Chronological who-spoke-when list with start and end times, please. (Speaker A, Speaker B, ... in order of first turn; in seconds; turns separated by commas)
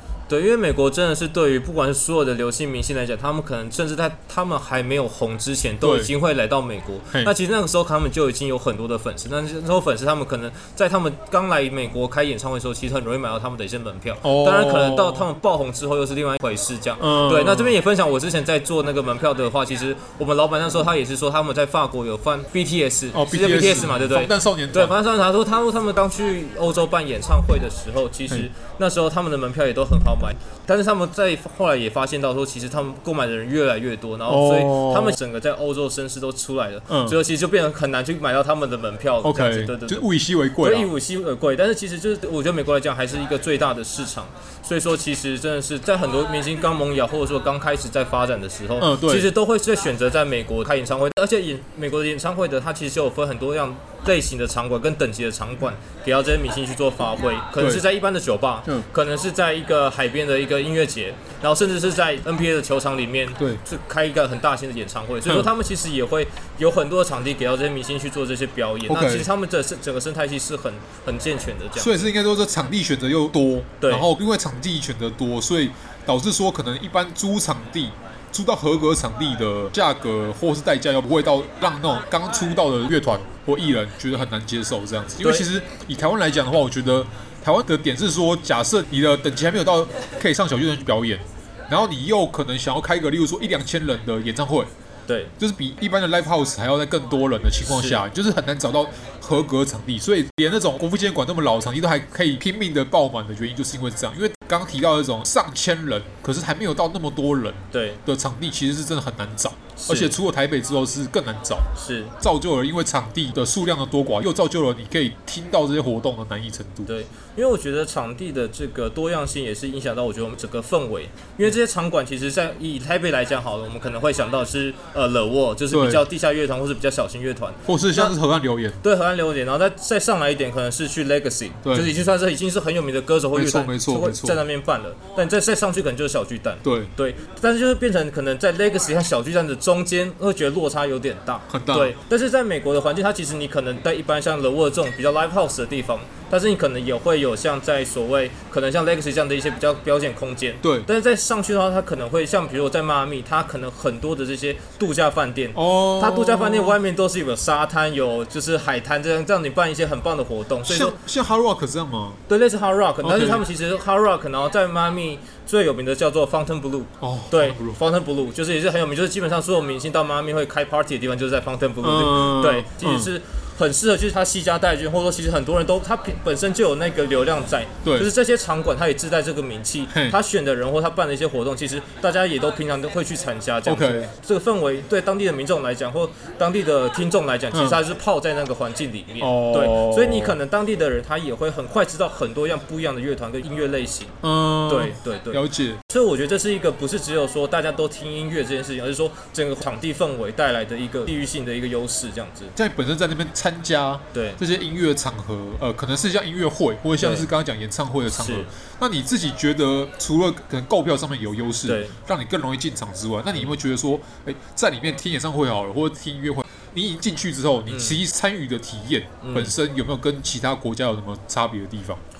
Speaker A: 0.3-72.1, Speaker B: 5.8-6.1, Speaker B: 14.2-15.3, Speaker B: 17.0-17.8, Speaker B: 23.1-24.9, Speaker B: 34.3-35.2, Speaker B: 36.9-37.2, Speaker B: 39.2-40.9, Speaker B: 48.8-49.3, Speaker B: 57.6-57.8, Speaker B: 68.9-69.3, Speaker B: 71.7-94.7, Speaker A: 73.8-74.1, Speaker A: 85.2-85.5, Speaker B: 95.4-111.7, Speaker A: 97.7-98.0, Speaker A: 107.7-108.0, Speaker A: 109.8-110.2, Speaker A: 111.8-112.1, Speaker B: 112.2-116.9, Speaker A: 116.8-128.2, Speaker B: 125.7-126.0, Speaker B: 127.7-128.8, Speaker A: 128.8-160.9, Speaker B: 131.6-131.9, Speaker B: 133.3-134.4, Speaker B: 136.6-136.9, Speaker B: 141.5-141.9, Speaker B: 150.6-150.9, Speaker B: 155.5-156.8, Speaker B: 160.7-162.2, Speaker A: 162.3-202.5, Speaker B: 163.0-163.4, Speaker B: 167.0-167.8, Speaker B: 171.8-173.1, Speaker B: 177.8-178.1, Speaker B: 179.9-180.2, Speaker B: 183.6-184.1, Speaker B: 187.5-187.8, Speaker B: 189.2-190.4, Speaker B: 194.2-195.8, Speaker B: 202.5-222.0, Speaker A: 204.1-204.4, Speaker A: 207.0-207.3, Speaker A: 208.1-208.5, Speaker A: 211.7-211.9, Speaker A: 217.7-218.0, Speaker A: 219.2-219.6